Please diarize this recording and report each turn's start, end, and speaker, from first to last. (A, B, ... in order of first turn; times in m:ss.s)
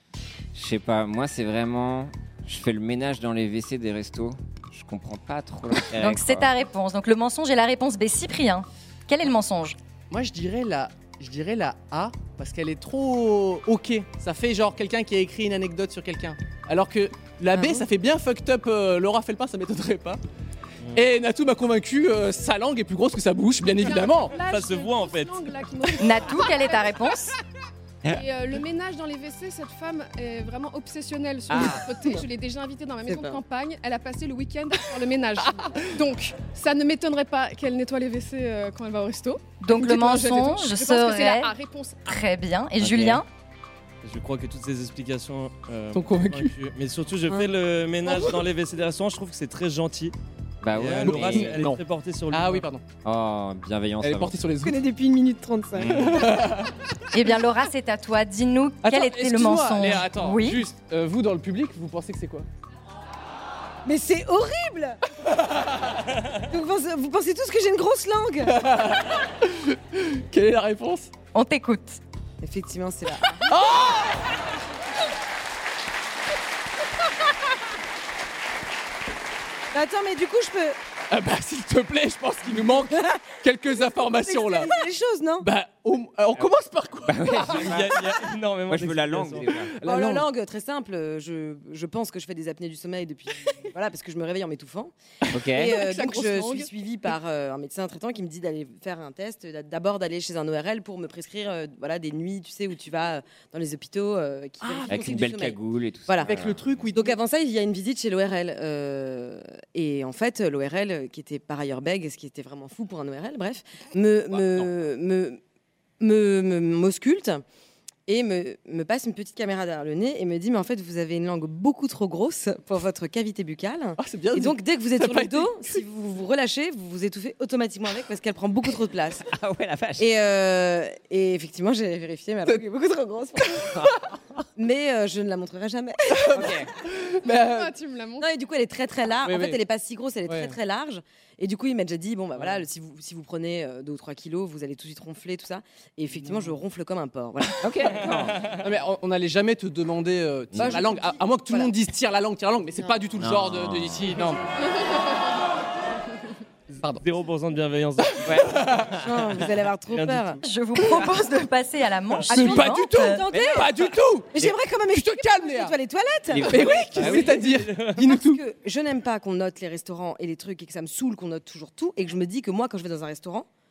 0:00.5-0:06.5 A
0:05.9-0:09.8 B
0:10.1-0:20.2 C
0:17.5-0:17.9 D
0:20.9-0:24.4 C
0:23.8-0:27.1 E
0:24.4-0:25.5 F
0:26.0-0:27.4 B
0:28.1-0:42.1 E
0:31.5-0:31.9 A
0:33.1-0:33.4 D
0:39.6-0:41.5 B
0:42.0-0:43.2 B
0:42.8-0:43.2 A
0:44.0-0:50.1 F
0:45.9-0:46.5 C
0:50.6-0:51.6 A
0:50.7-0:52.6 F
0:51.0-0:52.8 C
0:53.0-0:54.5 A
0:54.0-0:54.8 C
0:54.6-0:56.2 D
0:55.8-0:56.3 A
0:55.9-0:56.7 C
0:57.1-1:00.6 B
0:58.8-1:02.4 C
1:03.8-1:05.0 D
1:06.5-1:08.7 D
1:08.5-1:11.1 C
1:11.3-1:12.0 B
1:12.4-1:13.6 D
1:13.4-1:14.2 C
1:19.7-1:20.8 D
1:21.1-1:24.8 C
1:23.0-1:23.3 D
1:24.2-1:25.5 D
1:25.4-1:28.0 C
1:27.0-1:28.0 A
1:27.5-1:29.5 F
1:28.7-1:29.8 A
1:29.7-1:30.3 C
1:29.8-1:34.9 D
1:35.3-1:35.8 A
1:35.5-1:55.4 D
1:35.6-1:36.7 E
1:44.6-1:45.0 C
1:44.8-1:46.9 A
1:46.2-1:47.2 C
1:54.3-1:54.7 A
1:56.0-1:57.4 D
1:58.1-2:09.3 D
2:04.0-2:05.8 C
2:09.2-2:10.1 A
2:10.0-2:13.8 D
2:14.6-2:16.6 D
2:16.1-2:17.7 C
2:16.3-2:16.7 A
2:17.3-2:18.3 E
2:18.2-2:28.1 D
2:19.2-2:19.6 C
2:20.2-2:20.6 C
2:22.4-2:22.6 C
2:26.2-2:26.5 C
2:27.6-2:28.5 A
2:28.5-2:34.4 C
2:30.5-2:30.9 A
2:30.5-2:31.7 D
2:33.2-2:34.3 A
2:34.6-2:35.2 E
2:36.7-2:39.3 F
2:38.2-2:38.6 A
2:38.3-2:38.9 C
2:39.0-2:40.4 D
2:39.9-2:40.4 F
2:40.4-2:43.2 B
2:42.3-2:45.8 C
2:42.3-2:53.5 D
2:43.3-2:44.5 A
2:46.3-2:47.5 A
2:46.4-2:48.4 C
2:47.4-2:48.0 F